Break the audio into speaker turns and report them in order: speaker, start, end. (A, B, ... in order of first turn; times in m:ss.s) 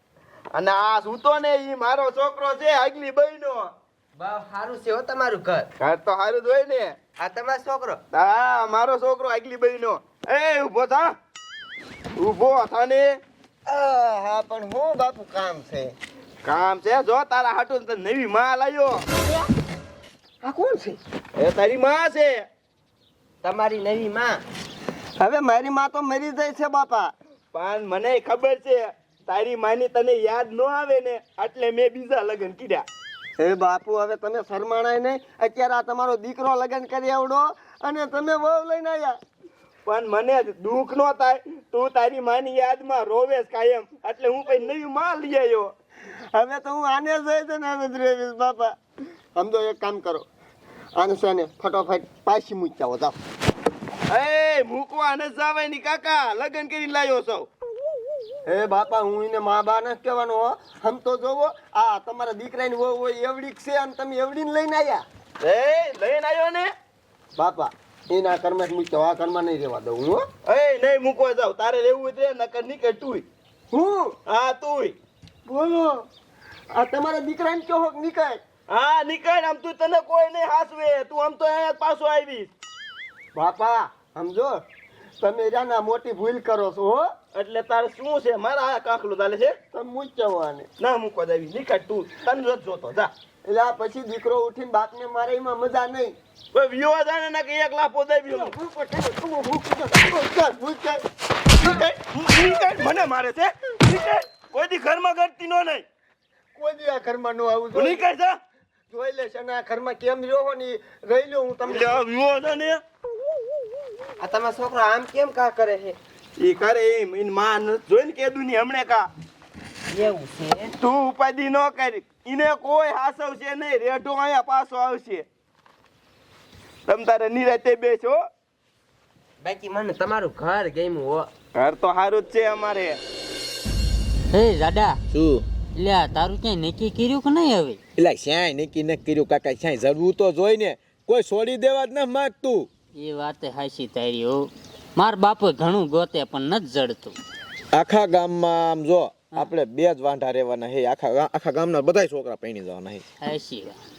0:00.5-0:03.7 A
0:04.2-0:05.7 B
0:05.8-0:06.9 A
0:07.2-0:08.0 B
0:08.1-0:11.1 A
0:12.2-0:13.2 A
0:13.7-0:15.9 C
0:16.4-0:19.0 A
0:20.4-0:21.0 C
0:21.4-0:22.5 A
0:23.4-0:24.4 B
0:25.2-0:27.1 C
0:27.5-0:32.9 A
0:33.4-0:39.2 C
0:39.8-0:45.7 A
0:46.3-0:48.7 C
0:49.4-0:50.2 C
0:50.9-0:53.2 C
0:54.1-0:57.5 A
0:58.4-1:05.0 C
1:05.4-1:06.7 A
1:07.4-1:10.2 C
1:10.4-1:13.2 A
1:13.7-1:14.2 C
1:14.3-1:14.9 A
1:15.4-1:16.0 C
1:16.7-1:18.4 C
1:18.7-1:22.5 A
1:23.3-1:24.6 C
1:25.2-1:27.1 C
1:27.3-1:29.6 A
1:29.7-1:30.7 C
1:30.8-1:33.1 A
1:33.4-1:36.2 C
1:36.5-1:38.5 A
1:38.3-1:41.0 C
1:41.6-1:45.8 A
1:46.6-1:48.0 C
1:47.7-1:48.4 A
1:48.9-1:52.0 C
1:51.7-1:52.8 A
1:54.2-1:56.0 B
1:56.4-1:59.1 A
1:59.9-2:00.8 B
2:00.8-2:05.2 A
2:06.9-2:08.2 A
2:09.4-2:11.3 B
2:11.5-2:13.0 A
2:14.3-2:15.0 D
2:15.1-2:15.4 E
2:15.8-2:17.8 D
2:18.0-2:22.7 E
2:23.0-2:27.2 D
2:27.7-2:33.0 E
2:33.2-2:33.8 D